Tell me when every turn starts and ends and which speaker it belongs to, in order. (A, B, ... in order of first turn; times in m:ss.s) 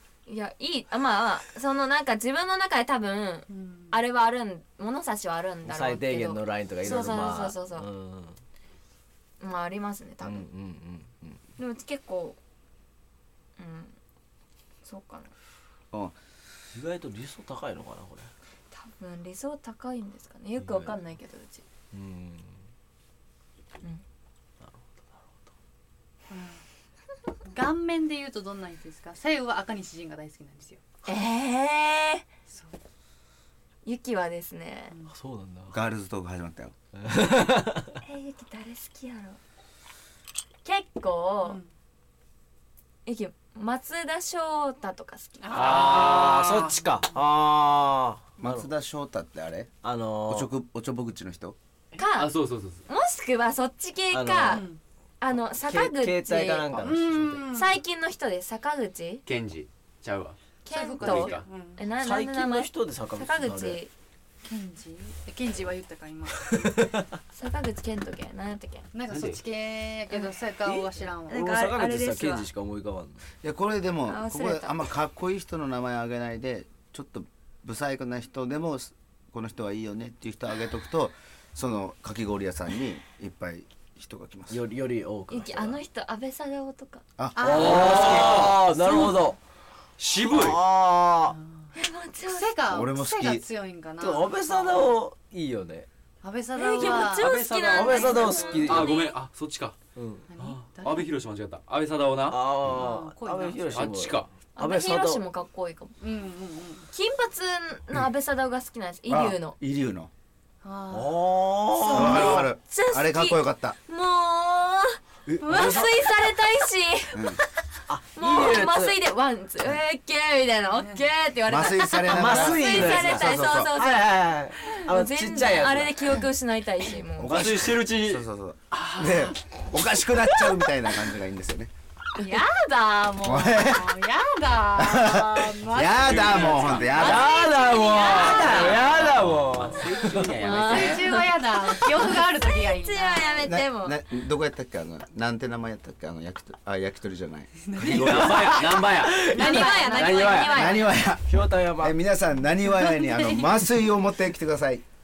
0:00.3-0:07.9 A
0:03.5-0:04.0 B
0:05.7-0:08.4 C
0:09.4-0:10.5 A
0:10.2-0:11.4 C
0:11.6-0:12.4 A
0:13.6-0:14.0 A
0:14.8-0:15.3 A
0:16.7-0:18.3 C
0:18.7-0:21.6 A
0:20.6-0:20.9 C
0:21.9-0:22.6 C
0:24.6-0:24.9 C
0:26.3-0:26.6 B
0:27.5-0:30.8 B
0:31.1-0:32.3 A
0:32.5-0:32.8 B
0:33.8-0:35.0 A
0:35.1-0:35.8 C
0:35.7-0:36.7 D
0:37.0-0:38.0 C
0:38.0-0:39.4 A
0:40.6-0:41.6 A
0:41.4-0:41.7 B
0:43.1-0:45.6 A
0:45.4-0:47.0 B
0:45.5-0:48.7 C
0:45.5-0:46.5 E
0:48.4-0:49.7 D
0:49.8-0:50.5 C
0:50.3-0:51.6 D
0:52.0-0:52.3 A
0:52.1-0:52.9 E
0:52.9-0:54.6 A
0:54.1-0:54.7 C
0:54.5-0:54.8 B
0:55.2-0:56.8 A
0:55.6-0:57.4 C
0:56.8-0:57.8 B
0:57.5-0:59.2 A
0:59.3-1:00.4 E
1:00.6-1:03.9 A
1:00.7-1:01.9 B
1:01.0-1:01.5 E
1:02.0-1:03.8 C
1:04.4-1:06.7 B
1:06.5-1:07.0 C
1:07.3-1:08.9 A
1:08.9-1:11.4 B
1:09.1-1:09.4 E
1:10.6-1:13.2 C
1:11.3-1:12.5 A
1:13.4-1:24.6 D
1:14.1-1:14.8 A
1:24.5-1:25.8 C
1:25.3-1:27.0 A
1:27.2-1:28.1 D
1:27.4-1:28.5 B
1:27.4-1:29.4 C
1:27.4-1:28.6 E
1:28.6-1:29.2 A
1:30.0-1:30.6 E
1:30.3-1:31.4 C
1:31.3-1:31.7 B
1:31.7-1:32.6 A
1:32.3-1:34.9 B
1:32.7-1:33.4 D
1:34.0-1:35.9 C
1:36.2-1:37.4 B
1:36.6-1:39.1 A
1:36.8-1:39.8 E
1:37.6-1:38.9 C
1:38.0-1:38.6 B
1:40.0-1:40.3 C
1:40.3-1:41.1 B
1:40.4-1:42.5 E
1:42.3-1:45.2 C
1:42.6-1:44.0 B
1:43.7-1:44.3 E
1:44.6-1:45.9 A
1:46.0-1:46.9 B
1:46.9-1:49.6 A
1:49.1-1:50.1 D
1:50.6-1:52.2 B
1:50.9-1:52.5 C
1:51.8-1:57.4 A
1:51.9-1:53.8 D
1:55.3-1:55.9 C
1:55.4-1:55.9 B
1:57.1-1:57.4 D
1:57.9-1:59.0 C
1:58.2-2:04.1 A
2:00.8-2:01.0 B
2:01.5-2:03.8 D
2:02.1-2:06.2 C
2:04.7-2:07.5 A
2:07.2-2:11.7 D
2:07.2-2:08.2 E
2:12.2-2:12.7 A
2:12.2-2:19.0 B
2:13.2-2:14.0 D
2:14.8-2:17.3 D
2:16.0-2:17.1 E
2:16.9-2:20.3 C
2:17.0-2:18.9 A
2:18.3-2:21.1 E
2:20.4-2:24.0 A
2:20.4-2:23.5 B
2:23.4-2:28.5 D
2:27.6-2:28.6 B
2:27.8-2:30.7 E
2:27.9-2:29.7 C
2:29.2-2:30.9 B
2:29.3-2:30.9 A
2:30.5-2:34.8 D
2:31.3-2:32.0 C
2:32.9-2:33.5 B